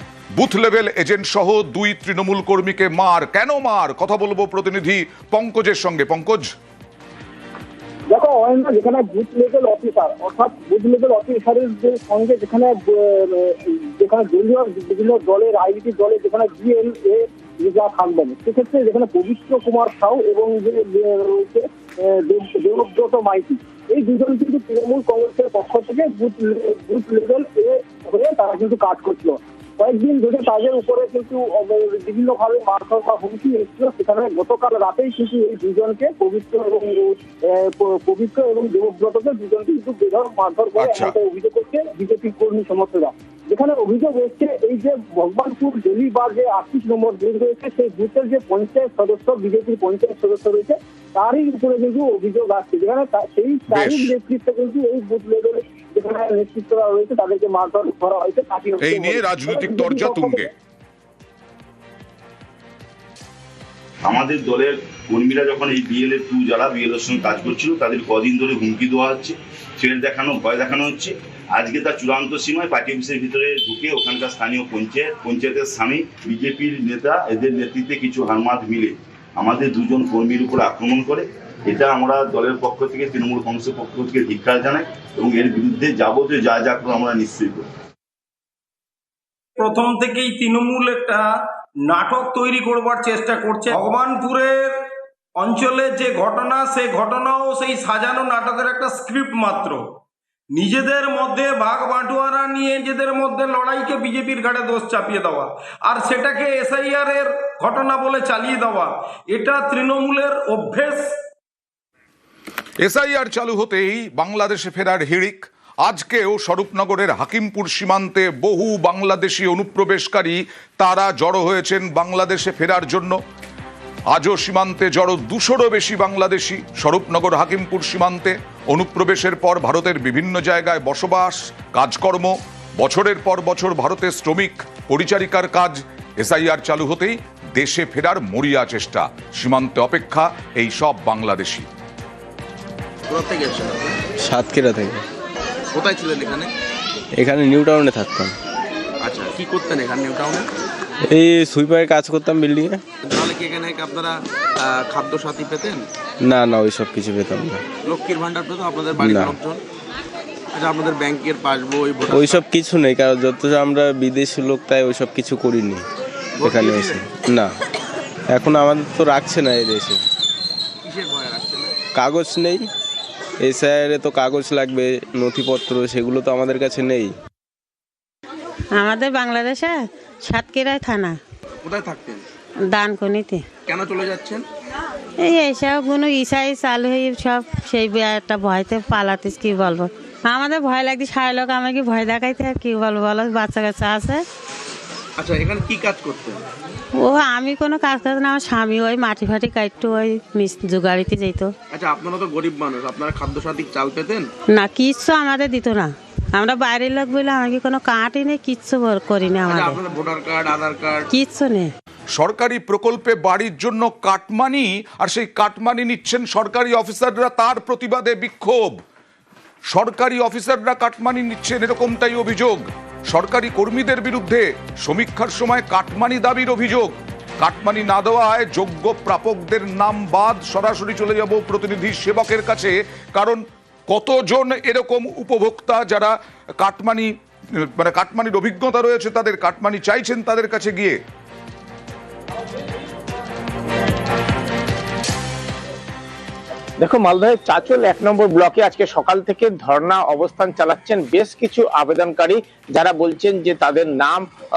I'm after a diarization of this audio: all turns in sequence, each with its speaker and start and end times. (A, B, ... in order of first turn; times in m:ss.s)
0:00.3-0:06.5 A
0:08.1-1:00.5 B
0:40.8-0:41.2 A
0:53.7-0:54.2 A
0:58.8-1:00.5 A
1:04.0-1:27.7 C
1:29.6-1:31.3 D
1:31.8-1:34.8 D
1:35.4-1:39.9 D
1:40.5-1:51.1 D
1:52.8-2:03.2 A
2:04.1-2:21.7 A
2:23.1-2:24.0 E
2:24.2-2:25.0 F
2:25.7-2:26.5 E
2:27.2-2:28.3 F
2:29.0-2:30.5 E
2:31.1-2:32.8 F
2:33.0-2:35.8 E
2:36.2-2:37.6 F
2:37.8-2:39.6 E
2:39.0-2:39.4 F
2:40.5-2:42.4 E
2:42.1-2:45.8 F
2:46.4-2:47.5 F
2:46.4-2:47.0 E
2:48.3-2:50.0 F
2:50.8-2:51.7 E
2:51.9-2:52.7 F
2:53.4-2:57.1 F
2:58.8-3:01.2 G
3:01.6-3:02.2 E
3:02.7-3:03.4 G
3:03.7-3:04.4 E
3:05.2-3:14.2 G
3:15.2-3:16.4 E
3:17.0-3:21.5 G
3:21.7-3:24.3 E
3:24.5-3:29.8 G
3:29.5-3:31.1 E
3:31.1-3:31.7 G
3:32.1-3:38.8 A
3:39.7-3:57.1 A
3:57.6-4:01.0 A
4:06.8-4:14.2 H